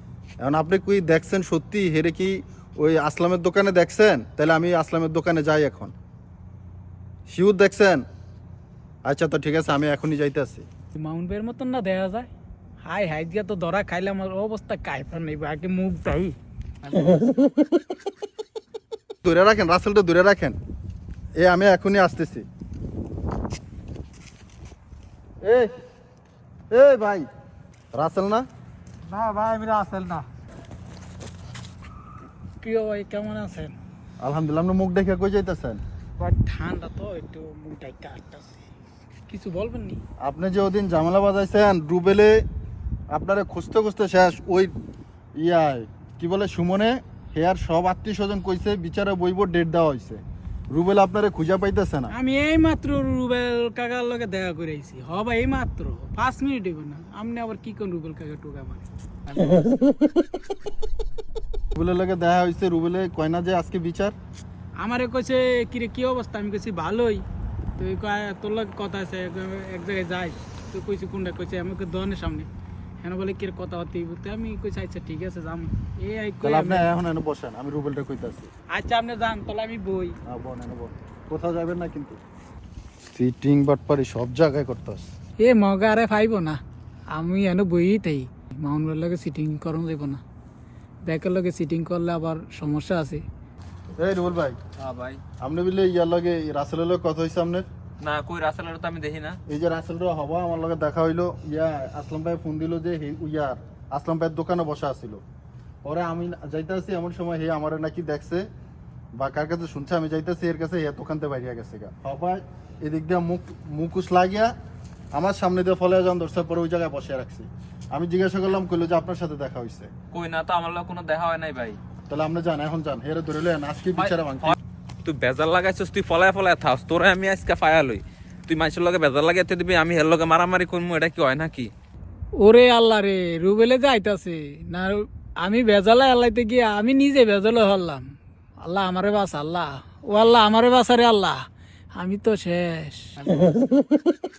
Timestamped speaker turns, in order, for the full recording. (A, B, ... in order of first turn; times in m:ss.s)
0:00.4-0:05.9 A
0:07.3-0:08.0 A
0:09.0-0:10.7 A
0:11.0-0:12.3 B
0:12.8-0:16.4 B
0:19.2-0:20.6 A
0:21.4-0:22.5 A
0:25.4-0:25.7 A
0:26.7-0:27.3 A
0:27.9-0:28.4 A
0:29.1-0:30.1 B
0:32.6-0:33.8 B
0:34.2-0:35.8 A
0:36.2-0:38.7 B
0:39.3-0:40.0 B
0:40.2-0:42.4 A
0:43.1-0:44.7 A
0:45.4-0:52.1 A
0:52.1-0:58.9 B
1:01.8-1:04.2 A
1:04.8-1:07.2 B
1:07.8-1:12.5 B
1:13.0-1:16.9 B
1:16.4-1:18.5 A
1:18.7-1:20.2 B
1:20.3-1:22.2 A
1:23.1-1:25.1 A
1:25.4-1:26.6 B
1:27.1-1:30.2 B
1:31.0-1:33.2 B
1:34.0-1:34.6 A
1:34.8-1:35.2 C
1:35.4-1:37.7 A
1:38.0-1:39.4 C
1:39.5-1:45.2 A
1:45.8-1:48.5 A
1:49.2-1:54.5 A
1:55.1-1:59.9 A
2:00.1-2:01.8 C
2:02.1-2:04.6 A
2:04.0-2:11.7 C
2:12.4-2:18.0 B
2:18.6-2:21.4 B
2:22.0-2:23.1 B